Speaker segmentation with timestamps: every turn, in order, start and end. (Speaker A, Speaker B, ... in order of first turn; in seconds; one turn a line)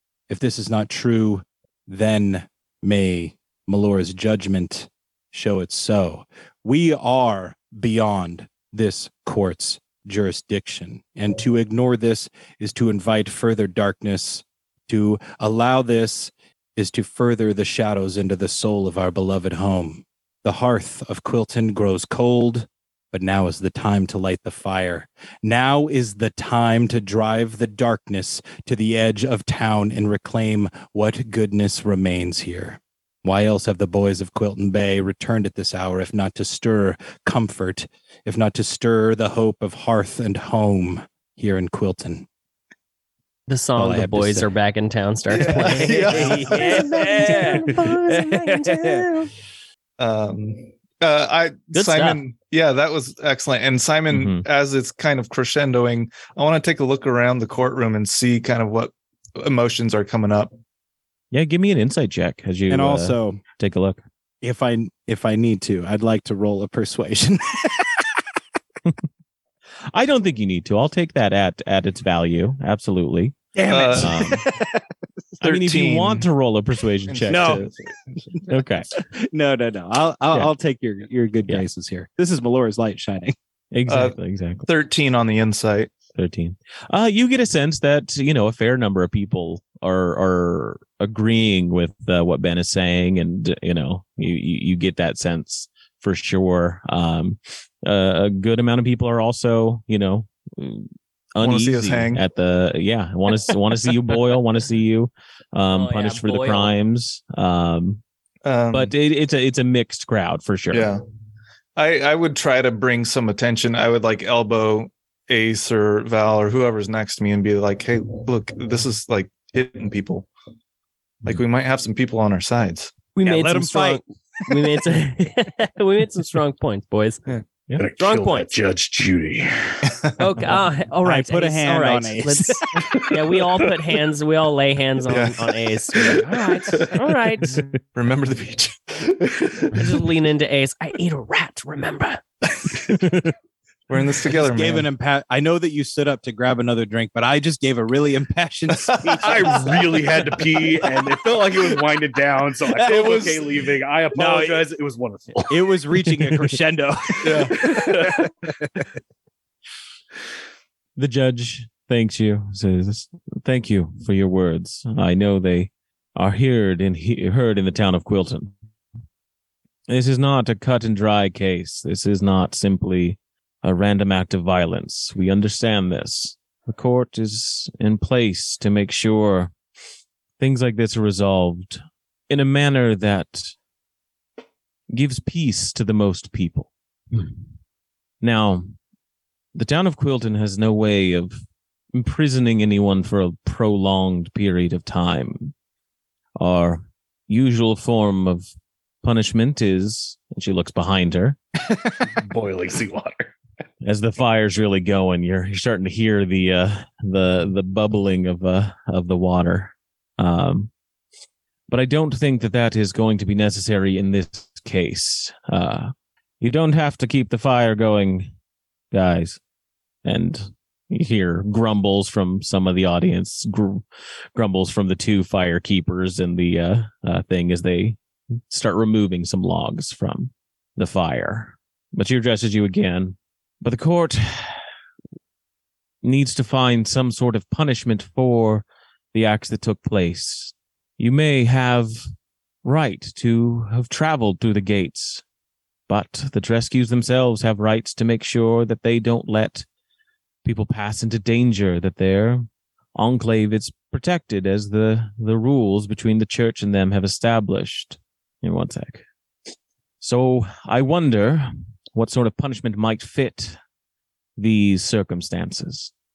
Speaker A: 0.3-42.3
Speaker B: 43.5-49.3
Speaker A: 43.8-44.5
Speaker C: 45.3-46.8
Speaker A: 45.4-49.1
Speaker C: 50.0-60.5
Speaker B: 51.7-52.2
Speaker D: 54.1-54.5
Speaker D: 61.3-64.0
Speaker A: 62.7-63.4
Speaker A: 64.4-68.2
Speaker D: 69.9-74.5
Speaker A: 73.5-74.9
Speaker C: 73.7-74.5
Speaker D: 75.4-77.7
Speaker C: 75.4-76.3
Speaker C: 77.1-78.4
Speaker A: 77.3-77.7
Speaker D: 78.5-78.9
Speaker A: 78.9-83.3
Speaker D: 83.7-84.7
Speaker C: 83.9-84.1
Speaker C: 84.7-85.9
Speaker D: 86.2-108.0
Speaker C: 101.4-102.2
Speaker B: 105.7-106.7
Speaker C: 108.5-108.9
Speaker D: 108.7-110.9
Speaker C: 110.7-111.0
Speaker C: 111.8-120.3
Speaker C: 121.2-123.0
Speaker B: 123.1-127.2
Speaker A: 123.2-124.9
Speaker E: 127.8-130.0
Speaker B: 128.0-128.5
Speaker B: 130.2-137.6
Speaker A: 131.0-132.9
Speaker C: 135.1-135.4
Speaker C: 137.9-139.9
Speaker B: 139.7-142.2
Speaker C: 143.9-144.9
Speaker A: 144.3-149.7
Speaker C: 148.9-151.0
Speaker E: 149.2-155.6
Speaker A: 152.8-153.4
Speaker C: 152.9-153.4
Speaker A: 154.1-154.7
Speaker A: 155.5-158.8
Speaker C: 157.2-157.7
Speaker E: 157.4-158.3
Speaker D: 161.0-168.5
Speaker D: 169.9-179.5
Speaker D: 180.4-183.6
Speaker D: 184.9-187.5
Speaker D: 188.2-188.7
Speaker D: 189.6-191.4
Speaker D: 191.9-195.5
Speaker D: 196.4-198.5
Speaker D: 199.0-201.4
Speaker E: 202.2-203.3
Speaker D: 203.8-210.7
Speaker D: 211.7-218.3
Speaker D: 218.9-219.4
Speaker D: 220.1-223.8
Speaker D: 224.3-228.0
Speaker D: 228.5-234.6
Speaker D: 236.0-242.0
Speaker D: 242.6-245.2
Speaker D: 245.9-249.7
Speaker D: 250.4-252.4
Speaker D: 252.9-259.1
Speaker D: 260.0-263.6
Speaker D: 264.4-265.9